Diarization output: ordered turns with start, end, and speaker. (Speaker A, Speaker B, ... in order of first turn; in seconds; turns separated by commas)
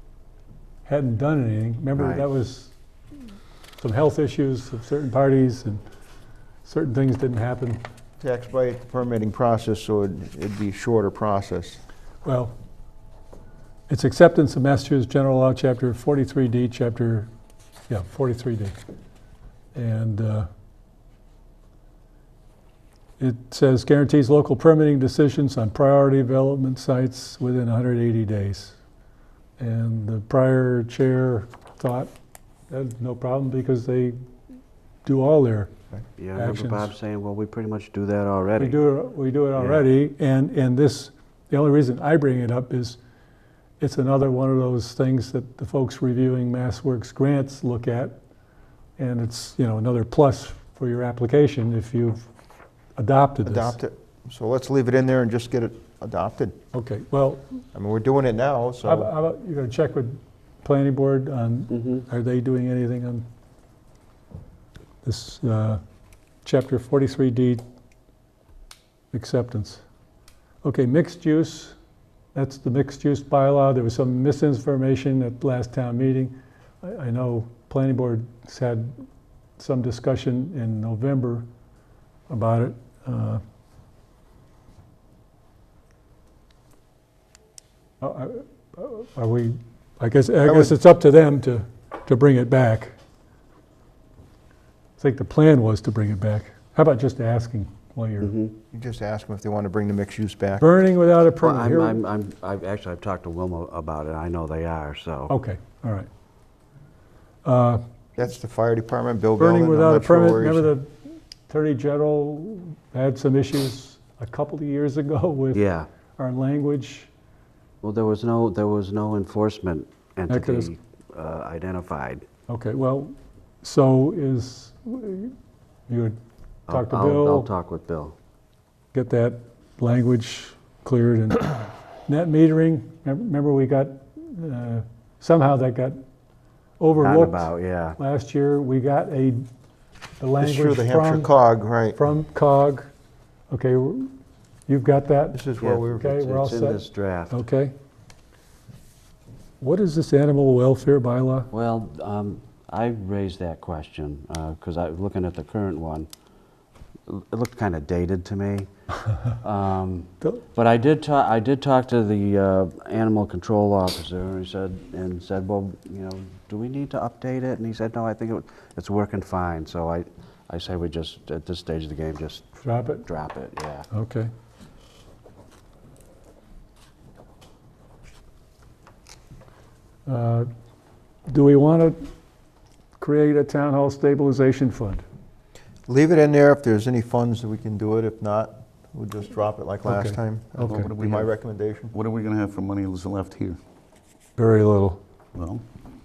Speaker A: 0.8-2.7, Speaker B: 2.0-2.2, Speaker A: 3.8-5.8, Speaker A: 6.6-7.8, Speaker C: 8.2-11.8, Speaker A: 12.2-12.5, Speaker A: 13.9-17.3, Speaker A: 17.9-18.8, Speaker A: 19.7-20.5, Speaker A: 23.2-28.8, Speaker A: 29.6-32.1, Speaker A: 32.7-34.2, Speaker A: 35.0-35.7, Speaker B: 36.2-38.8, Speaker A: 36.3-36.9, Speaker A: 38.6-43.0, Speaker B: 39.6-39.8, Speaker A: 43.8-48.1, Speaker A: 49.0-52.3, Speaker A: 53.0-53.8, Speaker C: 53.4-56.5, Speaker A: 56.7-57.5, Speaker C: 57.7-59.1, Speaker A: 58.8-63.2, Speaker B: 61.8-62.0, Speaker A: 65.0-65.8, Speaker A: 66.4-67.6, Speaker A: 69.1-69.8, Speaker A: 70.6-71.8, Speaker A: 72.3-79.0, Speaker A: 79.6-81.5, Speaker A: 82.3-83.4, Speaker A: 88.0-92.9, Speaker C: 90.4-90.8, Speaker A: 95.0-98.3, Speaker B: 98.2-98.5, Speaker C: 98.7-100.7, Speaker A: 100.6-102.0, Speaker B: 101.4-105.3, Speaker A: 105.3-106.1, Speaker A: 107.4-107.8, Speaker C: 108.2-110.7, Speaker A: 109.4-110.9, Speaker A: 111.5-115.6, Speaker B: 115.5-115.9, Speaker A: 116.2-117.1, Speaker B: 117.8-122.2, Speaker A: 120.3-120.7, Speaker A: 122.5-125.3, Speaker A: 125.9-126.2, Speaker B: 126.7-128.1, Speaker A: 126.7-127.5, Speaker A: 128.9-136.0, Speaker A: 136.8-139.4, Speaker B: 136.9-138.0, Speaker A: 140.2-141.3, Speaker C: 140.4-142.0, Speaker A: 141.9-142.9, Speaker A: 143.5-144.1, Speaker A: 144.7-145.4, Speaker C: 145.3-146.1, Speaker B: 145.6-147.4, Speaker A: 146.0-147.7, Speaker A: 149.6-151.5, Speaker B: 151.5-156.1, Speaker B: 157.1-158.7, Speaker B: 159.3-173.8, Speaker A: 172.6-173.1, Speaker A: 173.9-174.3, Speaker A: 180.1-180.5, Speaker A: 181.3-182.1, Speaker A: 183.0-185.0, Speaker C: 185.9-191.9, Speaker A: 189.8-190.9, Speaker D: 190.7-191.3, Speaker D: 191.9-193.6, Speaker A: 194.4-195.0, Speaker D: 195.3-195.6